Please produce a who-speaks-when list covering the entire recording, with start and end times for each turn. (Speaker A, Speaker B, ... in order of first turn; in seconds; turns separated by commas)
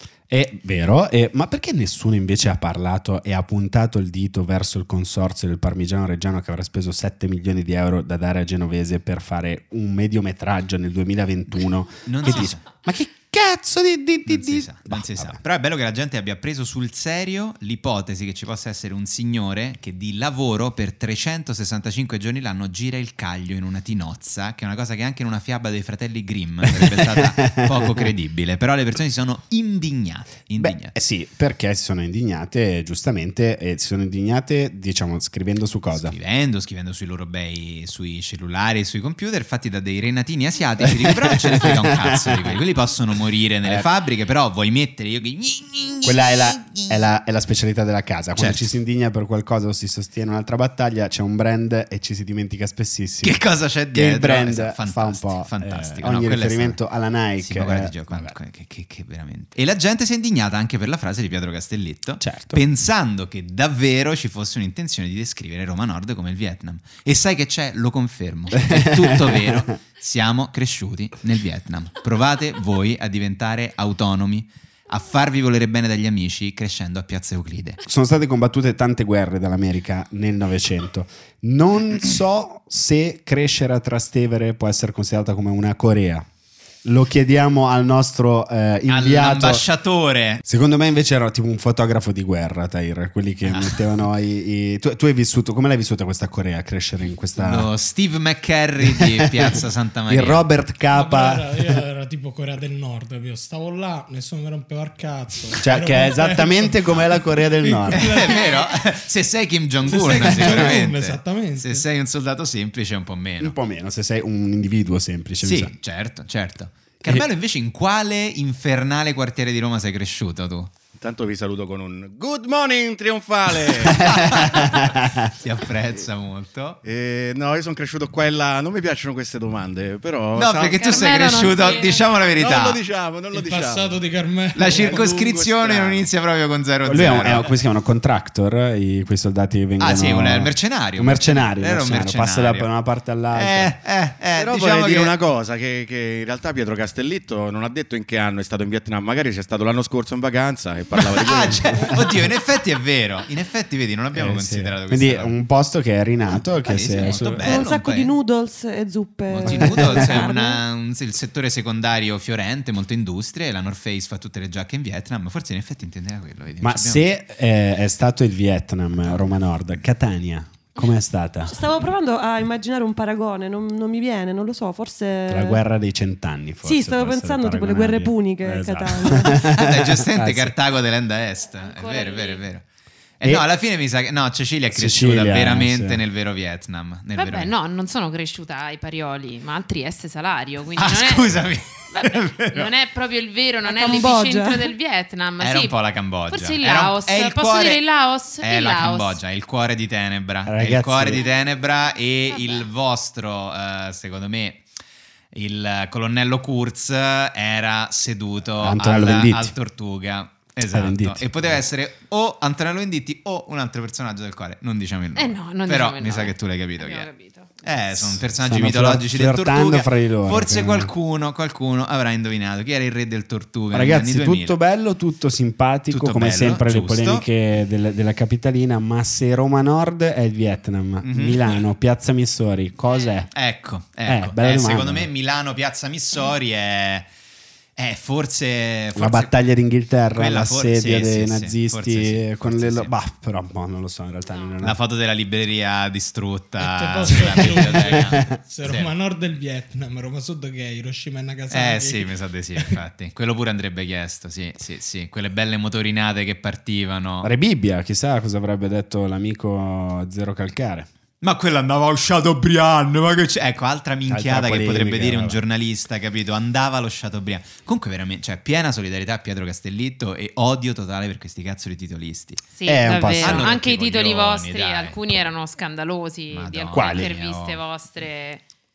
Speaker A: 0.3-15.4, Speaker B: 12.1-12.6, Speaker B: 14.2-30.9, Speaker A: 26.6-28.1, Speaker A: 30.6-36.1, Speaker B: 36.0-46.9, Speaker A: 40.8-42.6, Speaker A: 46.0-58.4, Speaker B: 48.4-48.7, Speaker B: 53.2-56.8, Speaker B: 57.4-77.8, Speaker A: 62.2-62.6, Speaker A: 68.6-69.7, Speaker A: 77.9-86.2, Speaker A: 86.8-89.7, Speaker B: 88.9-90.4, Speaker A: 90.4-97.7, Speaker B: 93.5-93.8, Speaker B: 97.4-100.5, Speaker A: 98.9-101.8, Speaker C: 100.9-108.8, Speaker A: 105.6-108.4, Speaker B: 107.9-113.6, Speaker C: 109.8-111.8, Speaker A: 110.2-110.7, Speaker A: 113.4-115.7, Speaker B: 115.4-120.7, Speaker D: 121.0-124.6, Speaker B: 123.8-126.8, Speaker A: 124.0-125.3, Speaker D: 126.8-134.0, Speaker B: 130.3-132.8, Speaker E: 130.7-132.0, Speaker C: 133.3-135.2, Speaker B: 134.6-137.5, Speaker D: 134.6-136.1, Speaker A: 136.8-143.7, Speaker B: 139.8-142.7, Speaker B: 143.3-145.2, Speaker D: 144.3-152.0, Speaker B: 150.9-155.3, Speaker A: 154.1-157.7, Speaker B: 156.6-158.1, Speaker F: 157.1-160.6, Speaker B: 159.3-167.1, Speaker A: 159.4-160.2, Speaker A: 166.6-171.6, Speaker F: 171.4-175.6, Speaker A: 175.3-180.5, Speaker F: 176.6-179.5, Speaker B: 179.5-182.6, Speaker E: 181.6-182.4, Speaker B: 183.2-187.5, Speaker A: 184.7-186.0, Speaker E: 187.2-195.8, Speaker B: 190.8-192.7, Speaker F: 193.6-194.7, Speaker B: 195.4-197.8, Speaker E: 196.3-199.2, Speaker B: 198.4-204.6, Speaker A: 200.5-201.2, Speaker E: 202.3-202.6, Speaker B: 205.3-217.1, Speaker A: 208.6-209.5, Speaker A: 210.6-211.5, Speaker E: 215.2-217.5, Speaker B: 217.6-224.6, Speaker A: 217.9-220.9, Speaker A: 223.7-233.3, Speaker B: 225.9-227.2, Speaker B: 231.0-231.6, Speaker B: 233.3-237.1, Speaker A: 234.1-235.1, Speaker B: 237.8-239.3, Speaker A: 238.9-244.8, Speaker B: 240.1-242.9, Speaker B: 244.6-248.9, Speaker C: 246.6-252.8, Speaker A: 247.1-248.3, Speaker B: 251.5-257.3, Speaker A: 257.2-260.9, Speaker B: 261.2-272.4, Speaker A: 264.1-265.4, Speaker E: 272.6-278.4, Speaker A: 272.6-273.5, Speaker B: 273.2-275.0, Speaker B: 276.3-277.6, Speaker A: 276.7-277.1